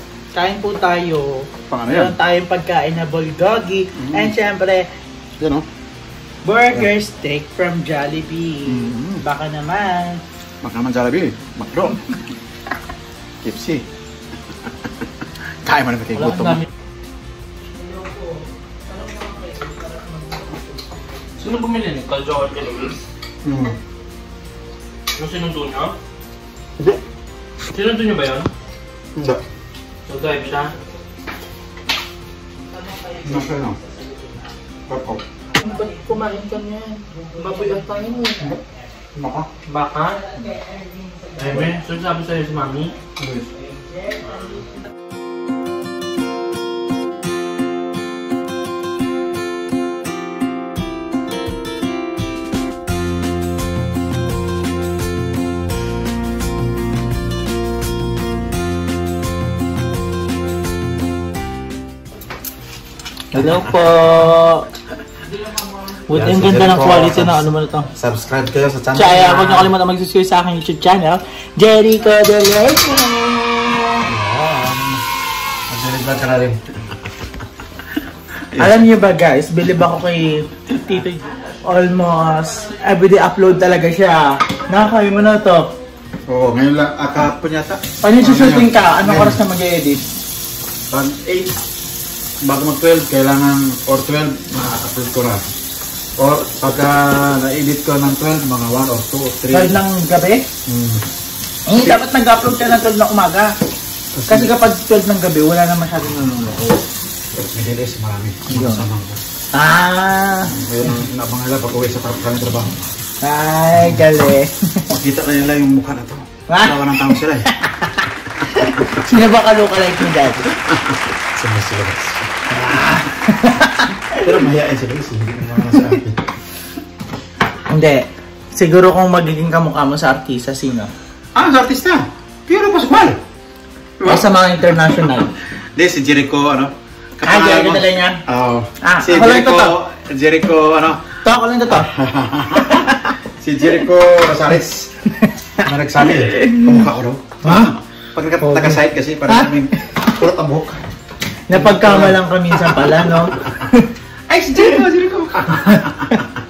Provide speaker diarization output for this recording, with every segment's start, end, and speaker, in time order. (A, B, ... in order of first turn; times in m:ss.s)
0:00.3-0:04.8 A
0:01.7-0:02.1 B
0:04.0-0:04.3 B
0:05.4-0:05.6 B
0:06.4-0:10.2 A
0:08.6-0:09.2 B
0:10.6-0:12.0 B
0:13.4-0:13.8 B
0:15.6-0:16.6 B
0:16.2-0:16.6 C
0:19.0-0:20.6 A
0:21.4-0:23.0 C
0:23.4-0:23.8 B
0:25.2-0:25.9 C
0:27.7-0:28.5 C
0:29.1-0:29.4 B
0:30.1-0:30.7 C
0:32.8-0:34.1 A
0:33.2-0:33.8 B
0:34.9-0:35.2 B
0:35.5-0:38.3 A
0:35.8-0:36.6 C
0:37.4-0:38.4 C
0:39.1-0:39.5 B
0:39.6-0:40.2 C
0:40.3-0:41.7 A
0:41.4-0:42.9 C
0:43.2-0:43.5 B
1:03.3-1:04.6 A
1:06.1-1:07.9 A
1:06.1-1:09.7 B
1:08.9-1:14.1 A
1:14.1-1:15.0 B
1:15.7-1:16.6 B
1:18.6-1:25.7 A
1:26.3-1:29.4 B
1:28.0-1:30.0 A
1:30.9-1:31.5 B
1:32.4-1:35.4 B
1:36.2-1:39.8 B
1:39.5-1:40.4 A
1:40.7-1:41.0 B
1:41.7-1:43.5 A
1:44.1-1:44.6 B
1:44.3-1:46.7 A
1:47.5-1:49.2 B
1:48.5-1:48.8 A
1:49.5-1:50.5 A
1:50.4-1:52.8 B
1:53.2-1:54.5 A
1:54.9-1:57.5 B
1:56.5-1:57.9 A
1:58.4-2:00.5 A
2:00.7-2:02.5 B
2:02.5-2:04.2 A
2:04.2-2:06.2 B
2:07.7-2:10.9 A
2:11.3-2:13.2 B
2:14.0-2:14.2 B
2:14.0-2:15.3 A
2:15.8-2:21.0 B
2:17.2-2:18.2 A
2:18.8-2:19.7 A
2:21.2-2:21.9 A
2:21.7-2:24.9 B
2:25.6-2:30.8 B
2:26.2-2:26.8 A
2:27.4-2:27.7 A
2:28.4-2:29.6 A
2:31.5-2:33.8 A
2:31.5-2:32.2 B
2:34.3-2:35.8 B
2:34.6-2:34.8 A